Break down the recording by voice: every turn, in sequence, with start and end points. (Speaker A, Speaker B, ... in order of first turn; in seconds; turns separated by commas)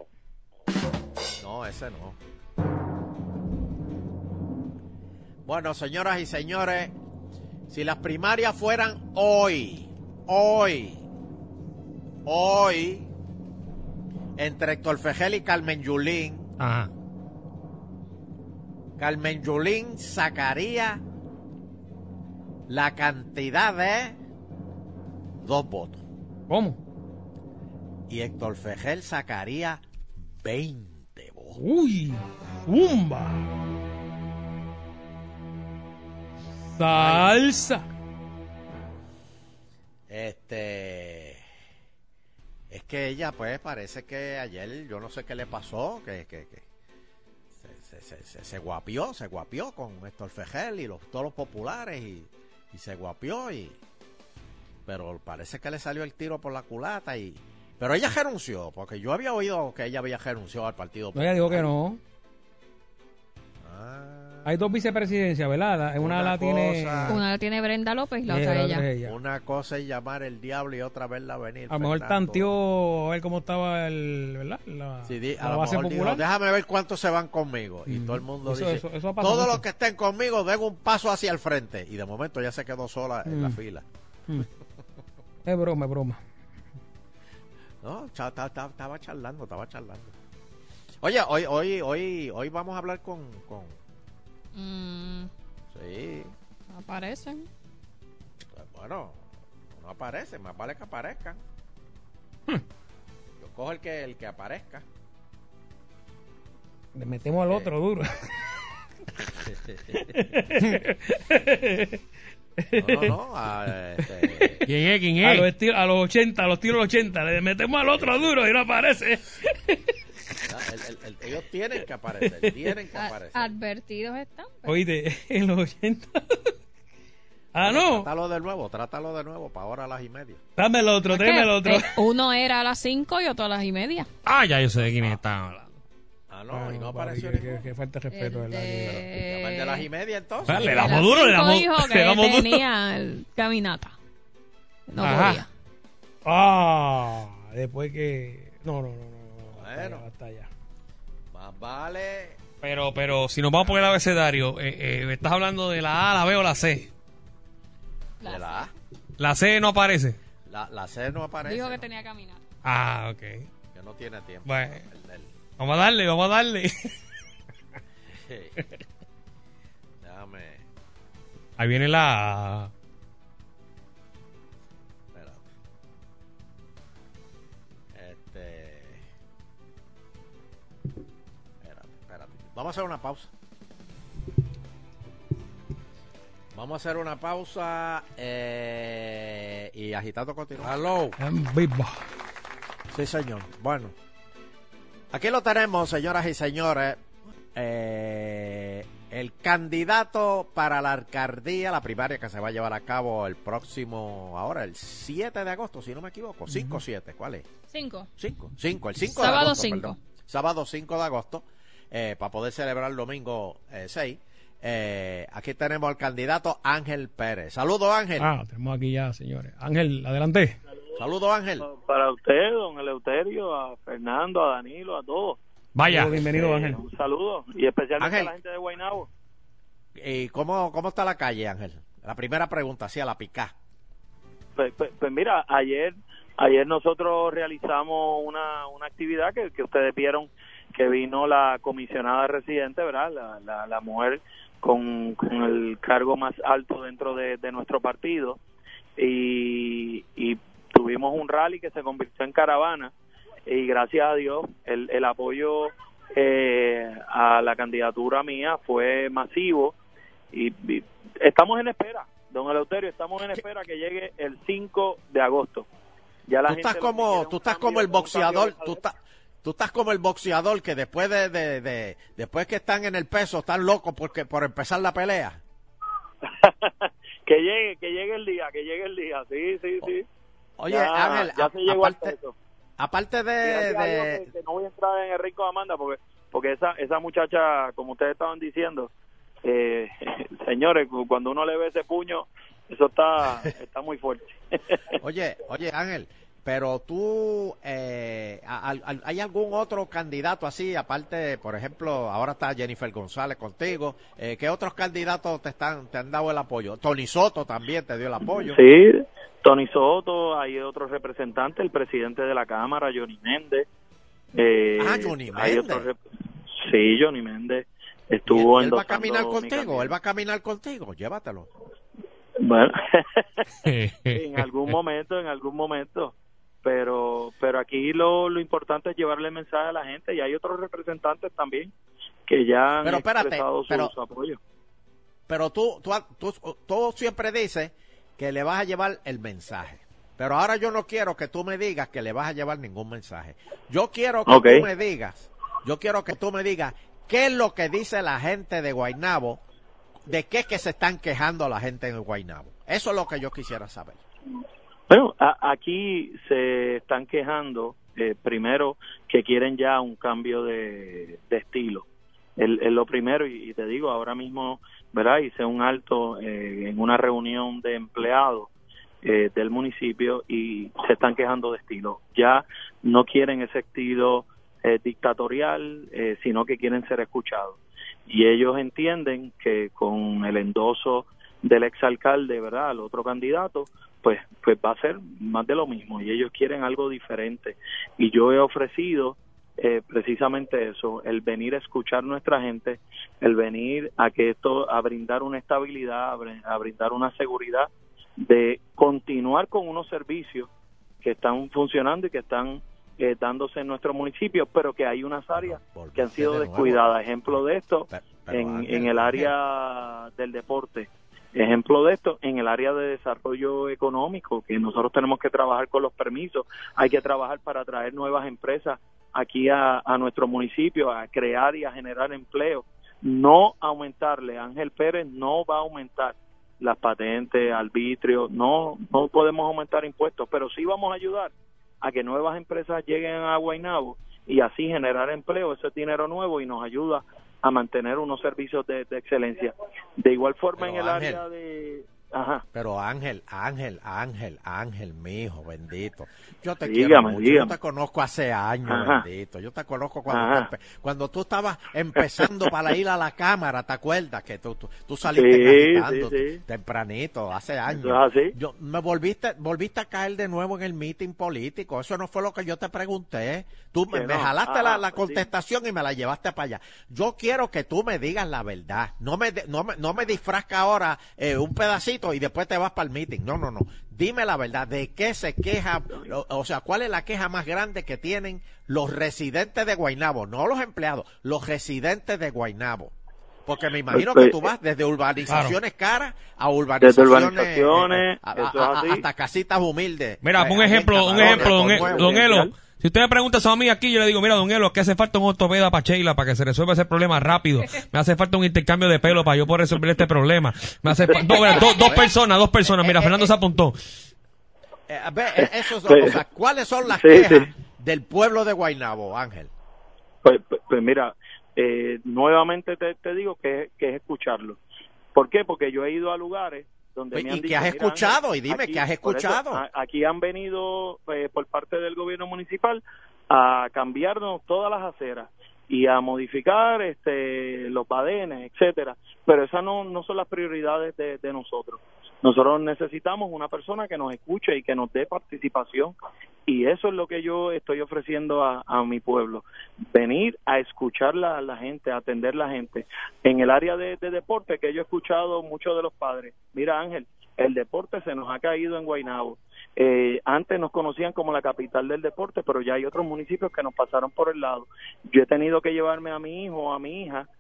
Speaker A: 1.4-2.2, Speaker A: 5.5-6.9, Speaker A: 7.7-11.0, Speaker A: 12.2-13.1, Speaker A: 14.4-16.5, Speaker B: 16.6-16.9, Speaker A: 19.0-21.0, Speaker A: 22.7-24.2, Speaker A: 25.4-26.0, Speaker C: 26.5-26.8, Speaker A: 28.1-31.6, Speaker C: 31.6-33.5, Speaker C: 36.8-37.9, Speaker A: 37.0-37.3, Speaker A: 40.1-41.4, Speaker A: 42.7-46.7, Speaker A: 47.5-53.8, Speaker A: 54.9-61.7, Speaker C: 61.1-62.0, Speaker A: 63.6-65.1, Speaker C: 64.5-67.2, Speaker A: 66.0-67.2, Speaker D: 67.1-68.9, Speaker C: 68.3-69.2, Speaker A: 69.0-72.5, Speaker C: 71.7-76.2, Speaker A: 75.0-83.8, Speaker C: 77.9-79.6, Speaker C: 83.3-83.6, Speaker C: 85.5-86.2, Speaker A: 87.8-90.2, Speaker A: 91.0-93.8, Speaker D: 94.5-95.3, Speaker A: 95.7-96.3, Speaker D: 96.7-97.5, Speaker A: 98.5-101.4, Speaker A: 103.4-104.8, Speaker C: 107.0-108.1, Speaker A: 109.4-110.2, Speaker C: 110.0-112.0, Speaker C: 112.6-113.1, Speaker A: 112.8-114.7, Speaker C: 114.0-114.5, Speaker B: 114.7-115.5, Speaker C: 115.2-119.8, Speaker A: 117.9-118.3, Speaker A: 120.5-123.6, Speaker D: 123.0-124.8, Speaker C: 124.7-126.3, Speaker C: 127.5-128.1, Speaker A: 127.6-130.4, Speaker C: 130.6-132.0, Speaker D: 131.1-134.1, Speaker B: 134.2-135.8, Speaker A: 134.7-135.2, Speaker A: 136.3-137.5, Speaker C: 136.5-139.0, Speaker D: 138.1-139.9, Speaker A: 138.8-141.1, Speaker B: 140.5-142.7, Speaker C: 140.5-140.8, Speaker D: 140.8-143.9, Speaker D: 144.9-145.5, Speaker B: 145.0-145.4, Speaker C: 146.2-150.5, Speaker A: 149.5-150.0, Speaker A: 151.3-152.4, Speaker B: 152.6-156.9, Speaker D: 158.2-158.7, Speaker A: 158.2-158.7, Speaker B: 159.2-160.2, Speaker A: 160.5-161.8, Speaker D: 161.4-162.4, Speaker B: 162.6-163.5, Speaker A: 163.7-165.3, Speaker B: 164.4-164.9, Speaker B: 165.6-166.9, Speaker A: 168.1-168.6, Speaker A: 170.0-170.6, Speaker B: 171.6-172.7, Speaker A: 175.1-175.5, Speaker A: 177.9-179.1, Speaker A: 181.6-183.3, Speaker A: 186.5-191.2, Speaker C: 191.2-192.0, Speaker A: 192.9-193.9, Speaker A: 195.1-207.5, Speaker C: 206.5-206.8, Speaker D: 207.7-208.1, Speaker A: 208.2-218.3, Speaker D: 209.0-210.0, Speaker C: 218.2-220.6, Speaker A: 221.0-221.7, Speaker E: 221.6-225.4, Speaker B: 225.8-226.2, Speaker C: 225.8-226.8, Speaker E: 226.2-229.1, Speaker A: 228.0-228.3, Speaker A: 230.0-233.5, Speaker E: 234.6-248.4, Speaker E: 249.0-252.9, Speaker E: 253.5-259.8, Speaker E: 260.3-265.7, Speaker E: 266.3-268.8, Speaker A: 266.5-275.4, Speaker E: 276.2-280.1, Speaker A: 280.6-282.1, Speaker E: 280.7-282.3, Speaker A: 282.8-284.2, Speaker E: 283.4-288.9, Speaker E: 289.4-294.8, Speaker A: 295.0-308.6, Speaker E: 308.4-313.7, Speaker E: 314.4-316.0, Speaker A: 314.8-315.9, Speaker E: 316.5-319.9, Speaker A: 318.3-321.5, Speaker E: 322.4-323.5, Speaker B: 323.6-324.8, Speaker E: 324.1-331.7, Speaker E: 332.3-334.4, Speaker A: 332.8-333.9, Speaker A: 335.3-349.4, Speaker E: 344.3-344.7, Speaker A: 350.1-354.0, Speaker E: 354.9-361.9, Speaker E: 362.4-368.5, Speaker E: 369.0-397.7, Speaker E: 398.2-400.5, Speaker E: 401.0-442.4, Speaker A: 405.4-409.3, Speaker A: 440.6-441.2, Speaker A: 442.5-482.9, Speaker E: 446.6-447.5, Speaker E: 448.7-449.1, Speaker E: 450.1-450.5, Speaker E: 455.1-456.4, Speaker E: 457.7-458.4, Speaker E: 463.9-465.3, Speaker A: 483.5-492.3, Speaker E: 483.9-484.4, Speaker E: 486.8-489.1, Speaker B: 490.2-503.8, Speaker E: 491.1-492.5, Speaker A: 501.4-502.1, Speaker A: 502.8-503.3, Speaker A: 504.9-509.5, Speaker E: 505.4-506.2, Speaker E: 506.9-507.5, Speaker E: 510.2-514.6, Speaker E: 515.1-535.9, Speaker A: 517.1-519.6, Speaker E: 536.5-557.3